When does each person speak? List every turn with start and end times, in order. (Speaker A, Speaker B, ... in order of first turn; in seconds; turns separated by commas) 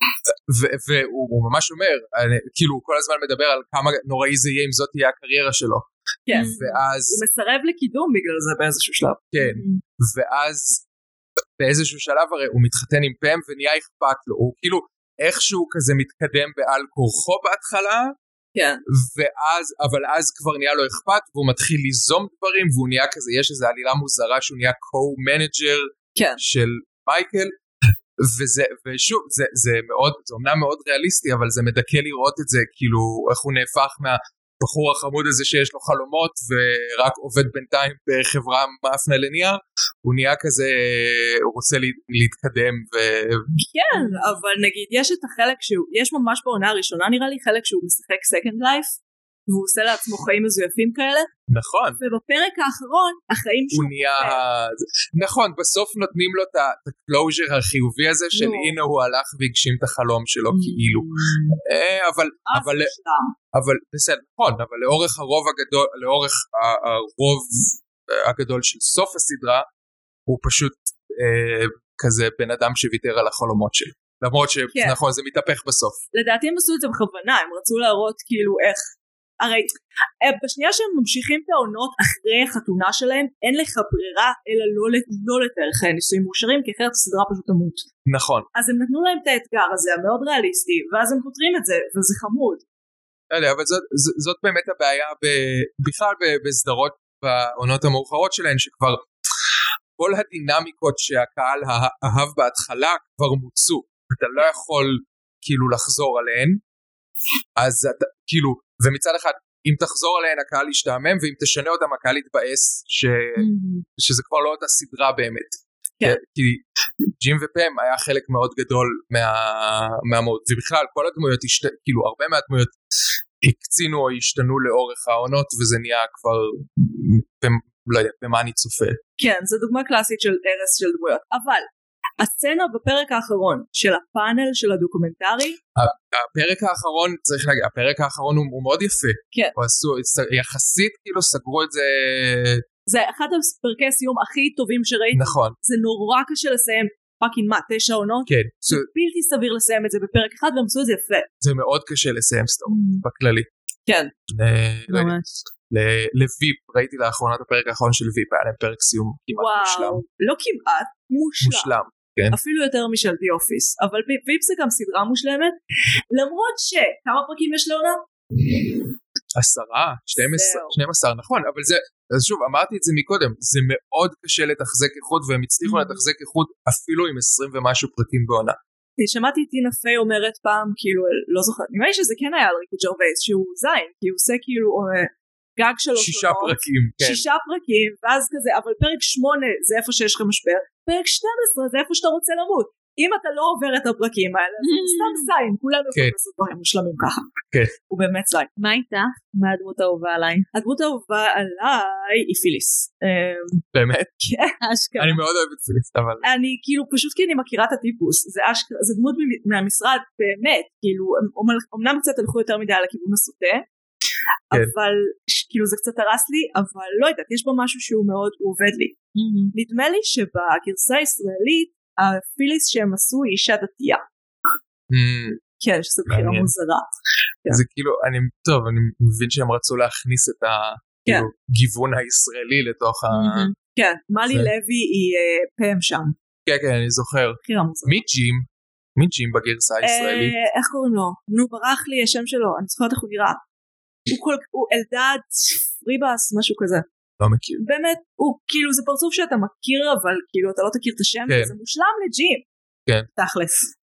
Speaker A: 0.5-7.2, Speaker B: 6.3-9.3, Speaker C: 6.3-6.8, Speaker A: 9.3-10.8, Speaker C: 9.4-9.8, Speaker A: 11.6-18.1, Speaker B: 18.6-18.8, Speaker A: 18.9-27.6, Speaker B: 26.1-26.4, Speaker A: 28.2-43.5, Speaker B: 43.6-51.3, Speaker C: 44.0-44.2, Speaker A: 51.5-52.0, Speaker B: 52.0-54.4, Speaker A: 53.7-62.9, Speaker B: 58.3-58.8, Speaker C: 60.5-61.6, Speaker B: 62.5-63.4, Speaker A: 63.5-69.7, Speaker A: 70.3-76.0, Speaker B: 74.7-75.0, Speaker B: 76.1-78.8, Speaker B: 79.4-87.9, Speaker A: 88.0-88.5, Speaker B: 88.5-92.6, Speaker A: 93.3-99.1, Speaker A: 100.0-106.6, Speaker A: 107.6-113.4, Speaker C: 113.4-113.8, Speaker A: 114.0-122.8, Speaker A: 123.4-129.0, Speaker B: 129.2-131.7, Speaker B: 132.2-135.6, Speaker A: 135.8-142.6, Speaker B: 142.9-151.3, Speaker A: 145.1-145.6, Speaker A: 148.3-148.8, Speaker A: 151.4-153.5, Speaker C: 152.7-153.0, Speaker B: 153.9-154.1, Speaker A: 154.3-155.2, Speaker C: 154.9-155.5, Speaker A: 155.7-160.0, Speaker B: 159.4-161.7, Speaker A: 161.4-162.4, Speaker B: 162.3-165.6, Speaker B: 166.1-168.0, Speaker A: 169.3-178.6, Speaker B: 170.2-170.8, Speaker B: 179.0-197.3, Speaker A: 185.9-187.2, Speaker C: 194.6-195.3, Speaker B: 197.9-198.5, Speaker C: 198.6-200.5, Speaker B: 200.5-203.7, Speaker A: 203.7-204.1, Speaker B: 204.2-204.6, Speaker C: 204.6-205.2, Speaker A: 205.0-206.2, Speaker B: 206.2-213.7, Speaker B: 214.5-219.0, Speaker C: 219.2-219.5, Speaker B: 219.5-224.0, Speaker A: 224.9-225.4, Speaker B: 225.6-226.9, Speaker A: 226.1-226.5, Speaker A: 227.5-233.5, Speaker C: 233.1-233.5, Speaker B: 233.7-236.2, Speaker A: 236.5-240.3, Speaker B: 237.4-238.1, Speaker B: 239.8-243.4, Speaker B: 244.1-246.9, Speaker A: 247.2-247.6, Speaker B: 247.6-252.4, Speaker A: 251.3-251.5, Speaker C: 253.2-253.7